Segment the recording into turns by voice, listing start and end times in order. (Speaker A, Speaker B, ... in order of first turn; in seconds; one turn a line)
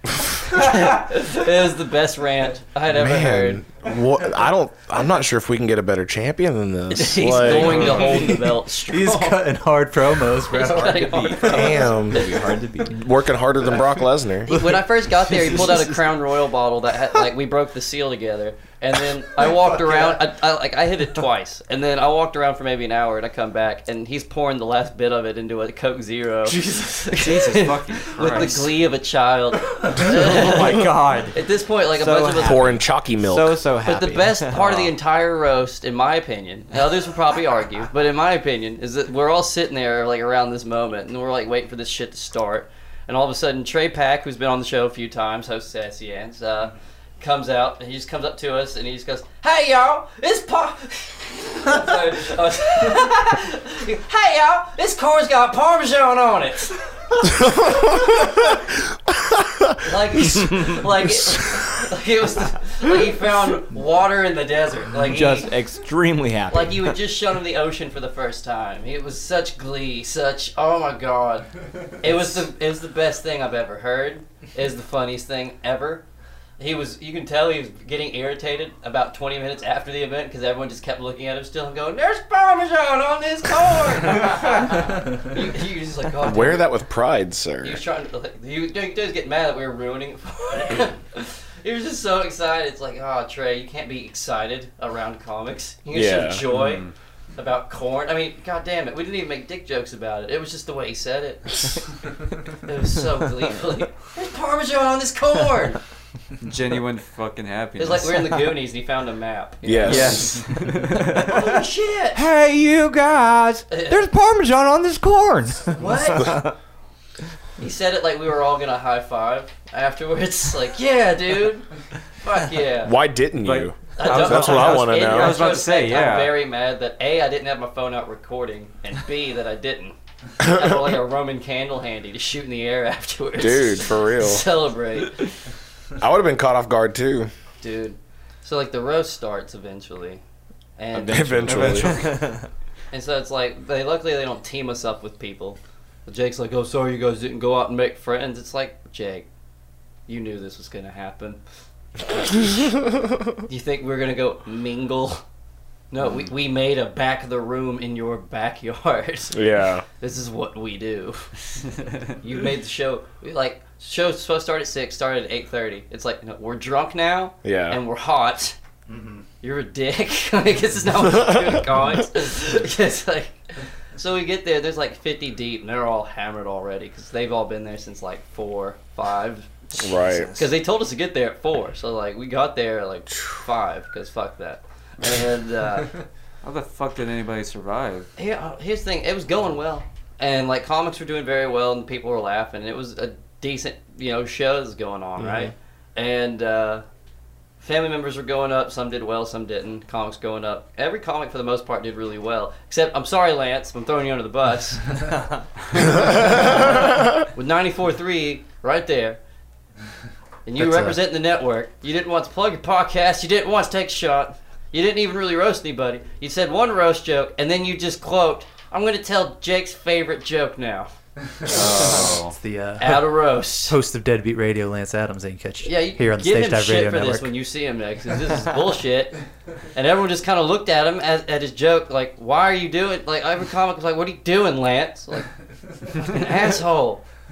Speaker A: 0.4-3.6
Speaker B: 2.9-8.2
Speaker A: 6.9-9.4
Speaker C: 7.5-8.1
Speaker D: 8.3-11.7
Speaker A: 10.5-12.3
Speaker E: 11.4-13.0
Speaker B: 11.4-14.5
Speaker A: 14.5-32.8
Speaker D: 14.5-15.9
Speaker D: 26.5-27.2
Speaker C: 27.1-28.6
Speaker E: 30.2-31.4
Speaker C: 30.5-31.3
Speaker E: 31.9-34.9
Speaker B: 32.4-33.6
Speaker A: 33.8-57.3
Speaker B: 57.5-58.3
Speaker A: 59.8-65.5
Speaker E: 65.0-67.0
Speaker A: 66.5-71.5
Speaker A: 72.0-76.0
Speaker A: 76.6-86.7
Speaker B: 86.2-87.8
Speaker A: 87.6-96.8
Speaker B: 95.9-96.4
Speaker C: 96.5-96.9
Speaker A: 97.4-101.8
Speaker A: 102.6-105.8
Speaker C: 106.4-108.4
Speaker A: 107.8-110.4
Speaker B: 109.6-110.4
Speaker C: 109.9-111.2
Speaker E: 109.9-111.5
Speaker A: 111.2-112.2
Speaker E: 112.1-116.5
Speaker A: 113.7-114.0
Speaker A: 115.8-116.4
Speaker A: 117.6-121.7
Speaker A: 122.2-123.0
Speaker B: 122.8-125.4
Speaker C: 123.4-126.3
Speaker A: 124.0-135.3
Speaker B: 133.4-134.5
Speaker B: 136.0-137.3
Speaker A: 137.6-140.2
Speaker A: 140.8-141.9
Speaker E: 140.9-142.5
Speaker B: 141.1-142.1
Speaker A: 142.9-149.3
Speaker A: 150.1-151.4
Speaker A: 152.1-152.7
Speaker A: 153.5-155.2
Speaker A: 155.9-159.4
Speaker B: 159.3-159.8
Speaker A: 160.0-161.3
Speaker A: 162.2-168.6
Speaker B: 167.4-167.8
Speaker A: 169.4-173.4
Speaker B: 171.2-171.6
Speaker A: 174.0-179.6
Speaker B: 179.8-180.4
Speaker A: 180.3-185.9
Speaker C: 186.4-188.1
Speaker A: 188.2-196.8
Speaker A: 197.6-205.0
Speaker A: 206.2-209.2
Speaker A: 210.5-220.9
Speaker D: 210.6-211.0
Speaker C: 221.5-222.3
Speaker D: 221.5-227.3
Speaker A: 222.8-223.8
Speaker A: 225.6-229.2
Speaker A: 229.8-235.3
Speaker A: 235.9-237.0